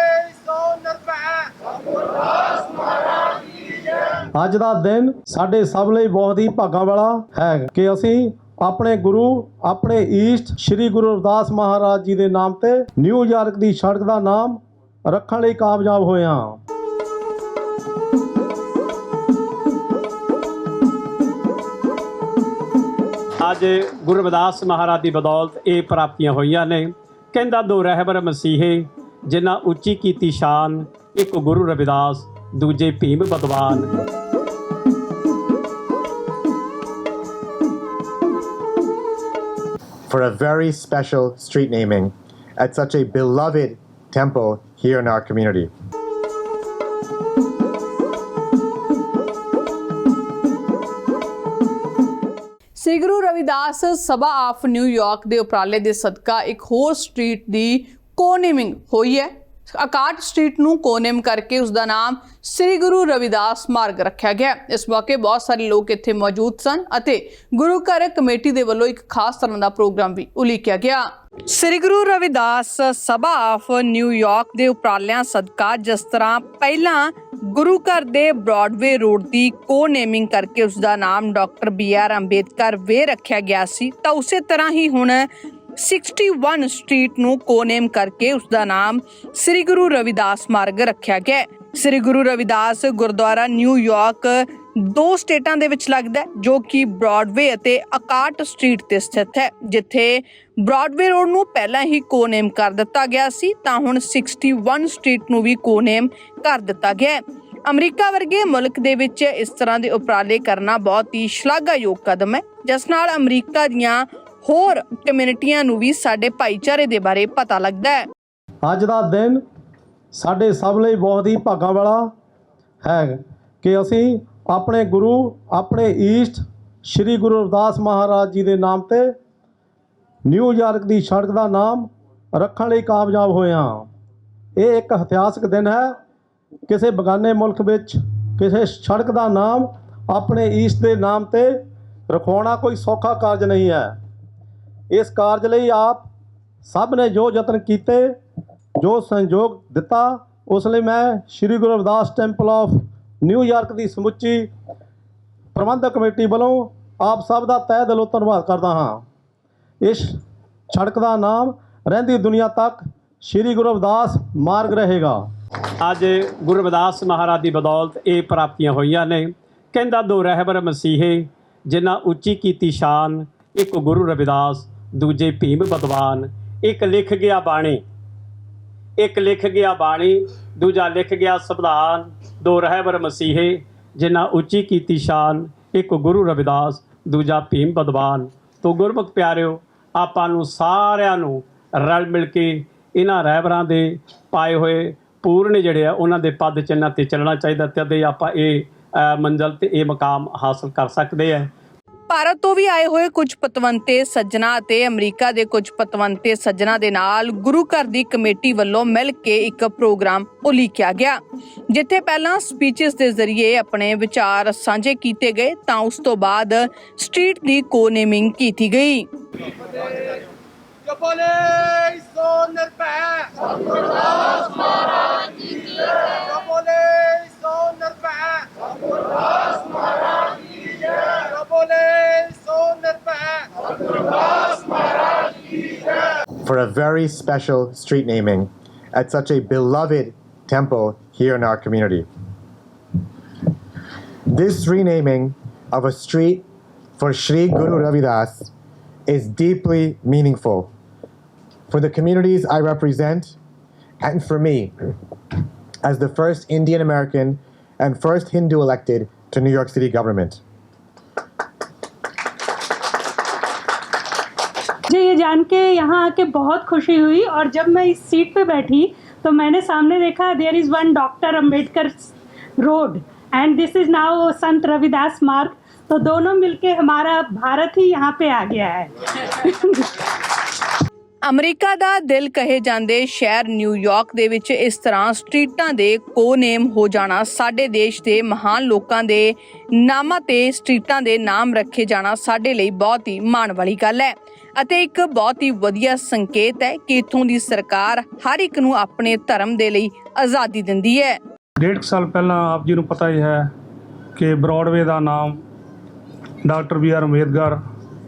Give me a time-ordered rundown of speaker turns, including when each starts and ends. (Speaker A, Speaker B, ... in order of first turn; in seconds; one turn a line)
Speaker A: 0.3-0.7
Speaker B: 4.3-16.6
Speaker C: 23.4-33.9
Speaker D: 40.1-45.7
Speaker E: 52.8-118.0
Speaker B: 118.6-119.4
Speaker B: 120.1-122.1
Speaker B: 122.8-129.1
Speaker B: 130.3-133.9
Speaker B: 134.6-136.0
Speaker B: 136.7-144.0
Speaker B: 144.9-146.1
Speaker B: 146.7-148.2
Speaker B: 148.8-154.5
Speaker B: 155.6-159.1
Speaker B: 159.8-160.1
Speaker B: 160.7-165.3
Speaker C: 165.8-177.8
Speaker C: 179.0-201.5
Speaker E: 202.1-211.2
Speaker E: 211.7-219.1
Speaker A: 221.0-224.9
Speaker A: 226.1-228.6
Speaker A: 229.4-229.9
Speaker A: 231.1-233.5
Speaker D: 236.4-242.1
Speaker D: 244.3-246.4
Speaker D: 247.0-248.5
Speaker D: 249.1-250.7
Speaker D: 251.7-253.4
Speaker D: 254.0-254.7
Speaker D: 255.8-260.4
Speaker F: 264.9-278.9
Speaker F: 279.5-279.8
Speaker E: 281.2-301.2
Speaker G: 301.6-303.5
Speaker G: 304.2-305.4
Speaker G: 306.4-307.6